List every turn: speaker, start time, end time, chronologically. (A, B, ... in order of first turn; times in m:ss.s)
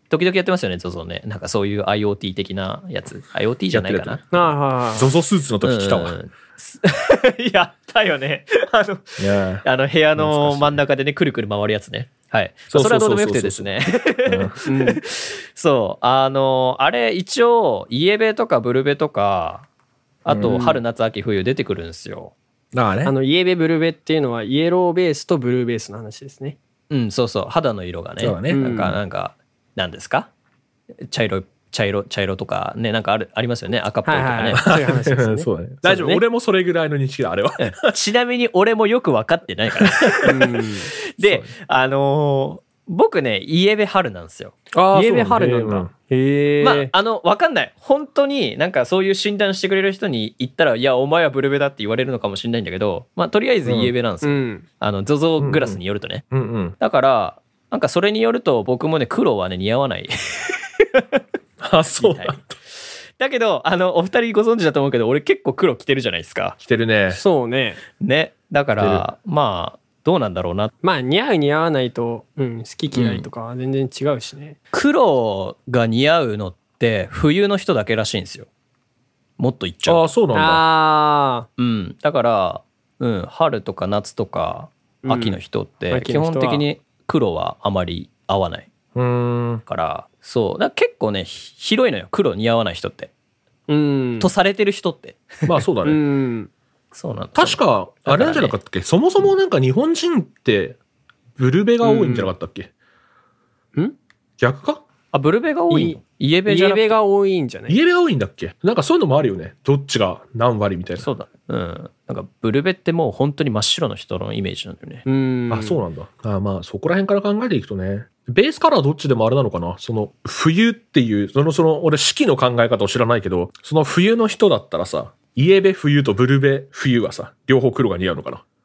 0:00.1-0:04.2 A
0:03.7-0:06.2 B
0:04.3-0:05.1 C
0:05.6-0:19.7 A
0:09.2-0:09.6 B
0:10.2-0:10.8 B
0:12.7-0:14.6 B
0:14.6-0:15.0 C
0:20.2-0:22.3 A
0:20.3-0:20.6 B
0:20.4-0:20.8 C
0:22.7-0:23.1 B
0:23.0-0:26.6 C
0:26.9-0:30.3 A
0:28.2-0:29.0 B
0:28.5-0:29.0 C
0:31.0-0:34.6 A
0:34.0-0:36.2 C
0:34.6-0:37.9 B
0:37.6-0:44.6 A
0:39.9-0:40.3 B
0:40.2-0:40.9 C
0:41.2-0:41.5 B
0:44.7-0:45.9 B
0:44.9-0:46.9 C
0:46.6-0:56.2 A
0:53.6-0:53.9 B
0:54.2-0:54.6 C
0:55.4-0:55.8 B
0:56.3-0:56.8 B
0:56.8-1:01.2 A
1:01.6-1:02.6 B
1:02.0-1:06.6 A
1:06.6-1:07.2 B
1:07.1-1:07.8 C
1:08.0-1:10.7 A
1:08.8-1:09.0 B
1:10.8-1:14.6 C
1:12.9-1:13.3 A
1:14.7-1:18.5 A
1:19.4-1:20.1 A
1:19.8-1:20.6 B
1:20.3-1:21.5 C
1:21.6-1:28.7 A
1:25.0-1:25.4 C
1:25.9-1:26.6 C
1:28.9-1:29.6 B
1:29.7-1:33.1 A
1:33.7-1:34.3 C
1:34.2-1:35.5 A
1:35.4-1:36.0 B
1:35.8-1:36.5 C
1:36.9-1:38.6 A
1:37.3-1:40.8 B
1:41.4-1:42.7 B
1:41.8-1:42.3 C
1:44.4-1:44.8 B
1:45.1-1:47.0 A
1:45.7-1:47.8 C
1:47.7-1:51.1 B
1:51.0-1:55.0 A
1:55.1-1:55.8 C
1:55.5-2:08.4 B